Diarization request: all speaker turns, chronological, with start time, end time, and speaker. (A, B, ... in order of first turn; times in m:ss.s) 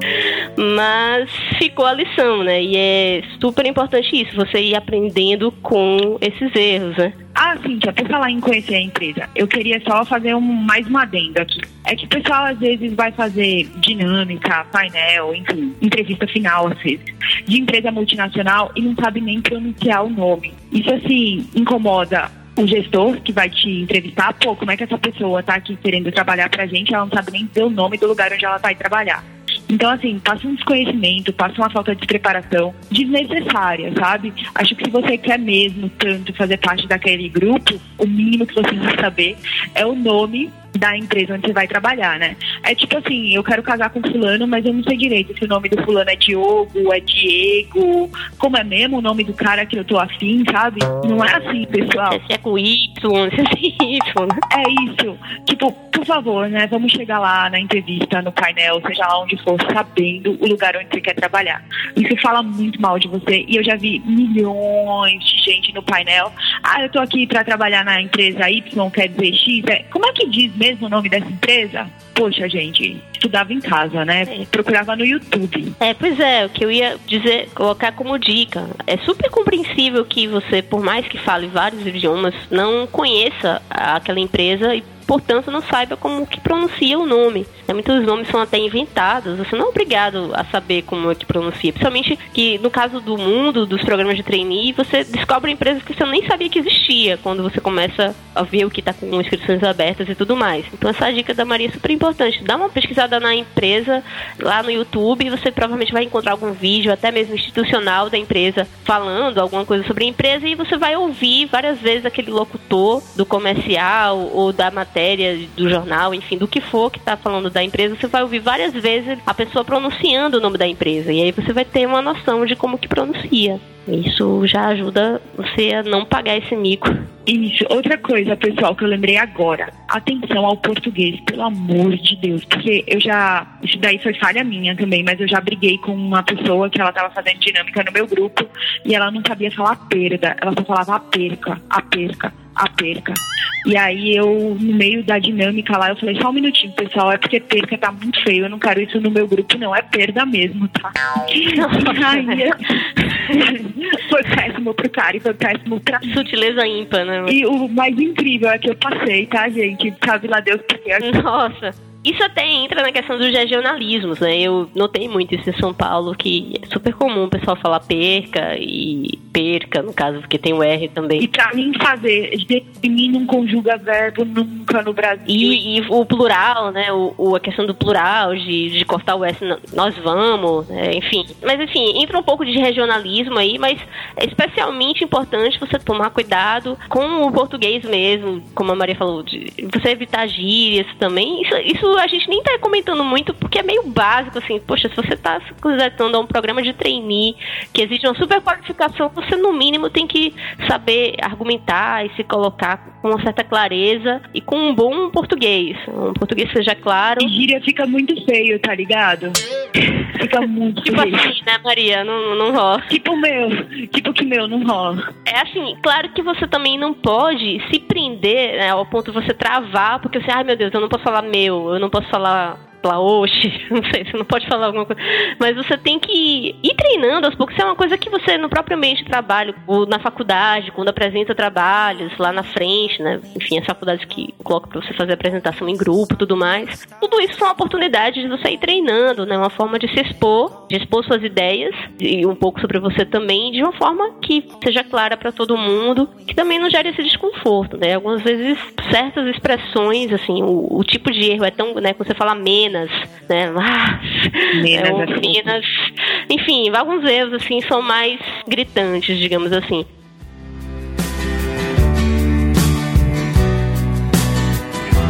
0:00.6-0:07.1 A
0:07.3-0:52.2 B
0:52.1-0:54.4 A
0:54.5-1:15.7 B
1:15.8-2:07.1 A
2:07.2-2:32.8 B
2:31.5-2:33.4 A
2:33.3-2:36.2 B
2:36.0-2:37.4 A
2:37.3-2:41.1 B
2:41.0-2:51.3 A
2:51.2-2:55.6 B
2:55.3-3:27.3 A
3:27.2-3:29.4 B
3:30.2-3:31.3 B
3:30.8-3:32.9 A
3:32.9-3:35.1 B
3:35.2-4:19.9 A
4:14.5-4:15.5 B